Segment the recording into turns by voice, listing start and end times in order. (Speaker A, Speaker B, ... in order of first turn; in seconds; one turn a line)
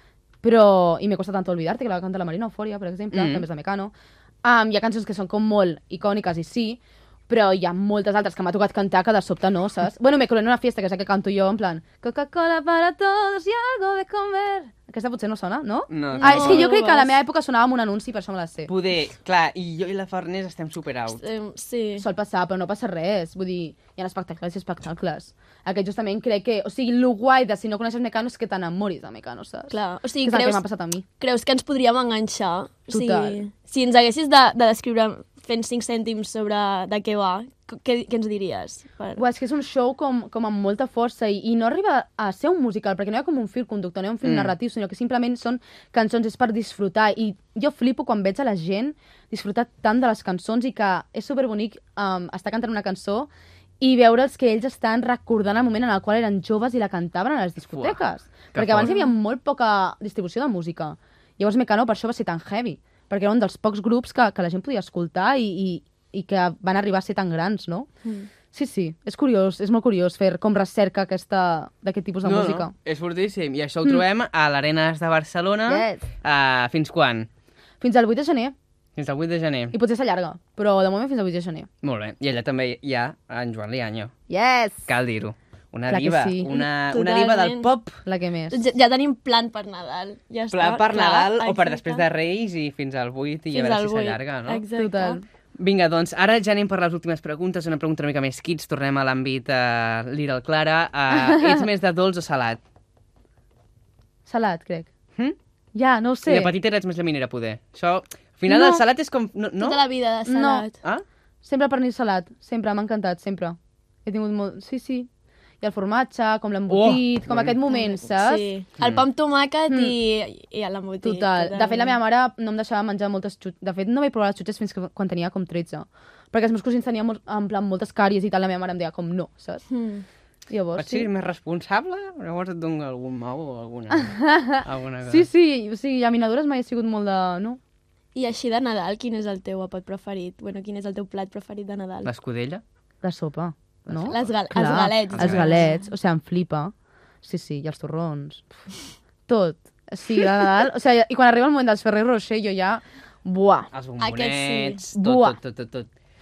Speaker A: 0.4-18.7
Speaker B: 3.1-3.5
Speaker B: 15.9-16.7
Speaker C: 16.1-17.2
Speaker B: 18.7-21.2
Speaker C: 21.2-22.0
Speaker A: 22.0-31.0
Speaker C: 29.7-30.6
Speaker C: 31.2-39.2
Speaker A: 32.9-33.4
Speaker A: 39.1-67.9
Speaker B: 44.2-44.5
Speaker B: 57.7-58.9
Speaker C: 58.8-59.1
Speaker C: 68.0-68.3
Speaker A: 68.5-72.7
Speaker B: 72.2-77.3
Speaker A: 75.7-76.0
Speaker A: 77.8-78.5
Speaker B: 79.0-79.7
Speaker A: 79.7-81.7
Speaker B: 81.8-84.1
Speaker A: 84.3-84.9
Speaker B: 84.9-88.0
Speaker A: 85.9-86.5
Speaker C: 86.5-87.7
Speaker A: 88.0-88.6
Speaker C: 88.5-92.1
Speaker B: 90.5-94.6
Speaker C: 93.5-95.2
Speaker A: 94.7-95.2
Speaker B: 95.6-102.6
Speaker A: 101.1-101.6
Speaker A: 104.2-104.9
Speaker A: 105.7-106.5
Speaker B: 106.2-109.9
Speaker A: 108.5-108.8
Speaker C: 109.6-110.8
Speaker A: 110.2-110.6
Speaker A: 111.4-115.1
Speaker A: 115.6-118.5
Speaker B: 116.7-117.6
Speaker C: 117.7-122.0
Speaker B: 118.8-119.0
Speaker A: 119.7-119.9
Speaker A: 121.0-129.6
Speaker C: 129.7-130.1
Speaker A: 130.5-131.1
Speaker B: 130.8-135.3
Speaker A: 133.9-137.6
Speaker C: 138.1-142.1
Speaker B: 142.0-142.6
Speaker A: 143.0-148.5
Speaker B: 143.8-144.3
Speaker C: 144.1-145.8
Speaker B: 145.1-145.7
Speaker A: 149.3-153.7
Speaker B: 153.7-155.9
Speaker C: 154.0-154.8
Speaker A: 154.9-155.4